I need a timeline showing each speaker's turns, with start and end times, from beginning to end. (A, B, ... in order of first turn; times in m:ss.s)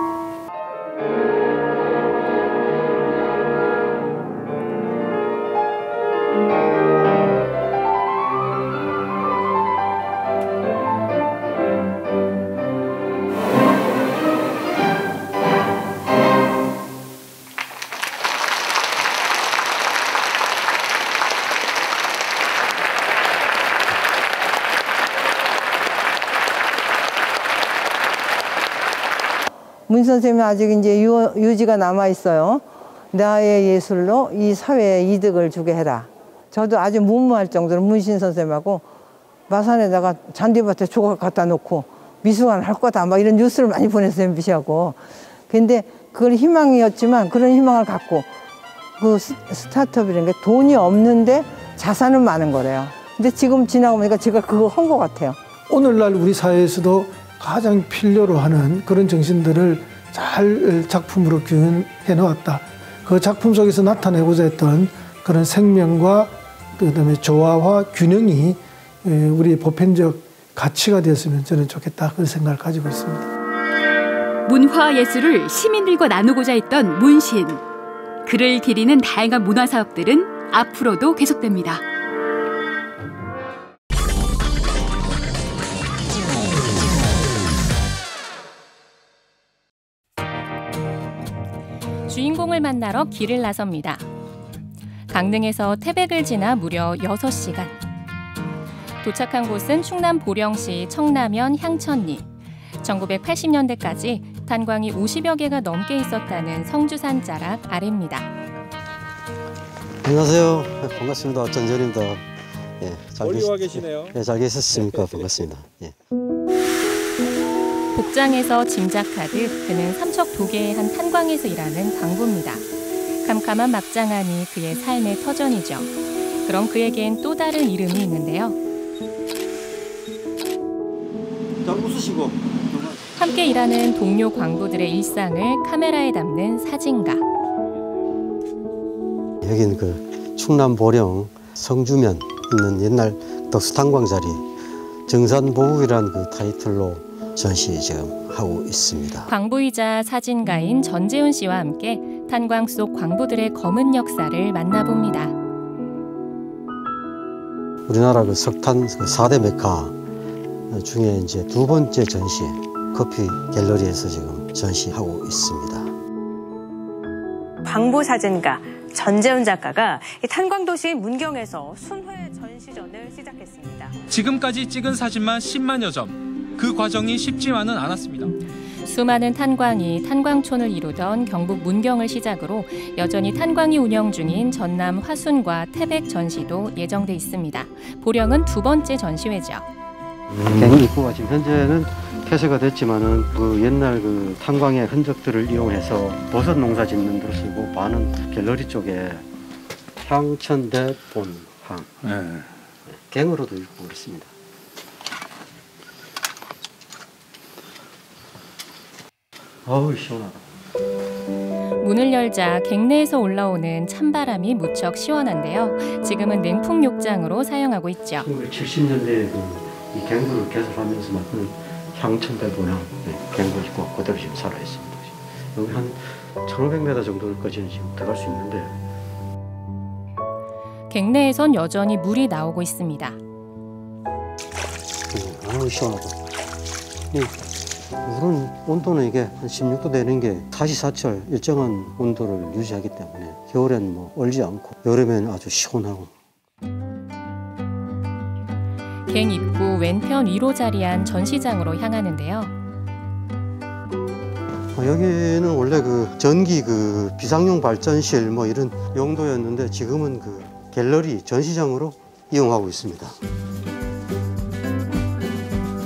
0:29.9-0:38.8 A
0:39.5-0:48.3 A
0:49.0-0:55.4 A
0:55.7-1:13.3 B
1:14.4-1:17.6 C
1:18.2-1:21.8 C
1:32.1-1:34.0 D
1:35.1-1:37.8 D
1:39.0-1:42.3 D
1:42.8-1:48.3 D
1:50.0-1:52.2 E
1:52.8-1:55.9 E
1:57.9-2:02.6 D
2:03.2-2:05.9 D
2:06.4-2:08.6 D
2:11.6-2:12.8 E
2:13.2-2:17.2 D
2:19.4-2:24.5 E
2:25.1-2:29.3 E
2:29.3-2:35.3 D
2:37.9-2:40.0 E
2:40.7-2:45.9 E
2:47.6-2:53.9 F
2:54.1-2:58.3 G
2:58.8-3:09.6 D
3:10.5-3:19.2 E
3:20.0-3:21.9 E
3:22.9-3:24.3 E
3:29.6-3:30.4 E
3:31.8-3:38.2 D
3:38.2-3:48.8 E
3:50.9-3:53.2 D
3:55.1-3:56.3 E
3:57.1-4:06.1 E
4:09.1-4:12.5 D
4:14.7-4:23.2 E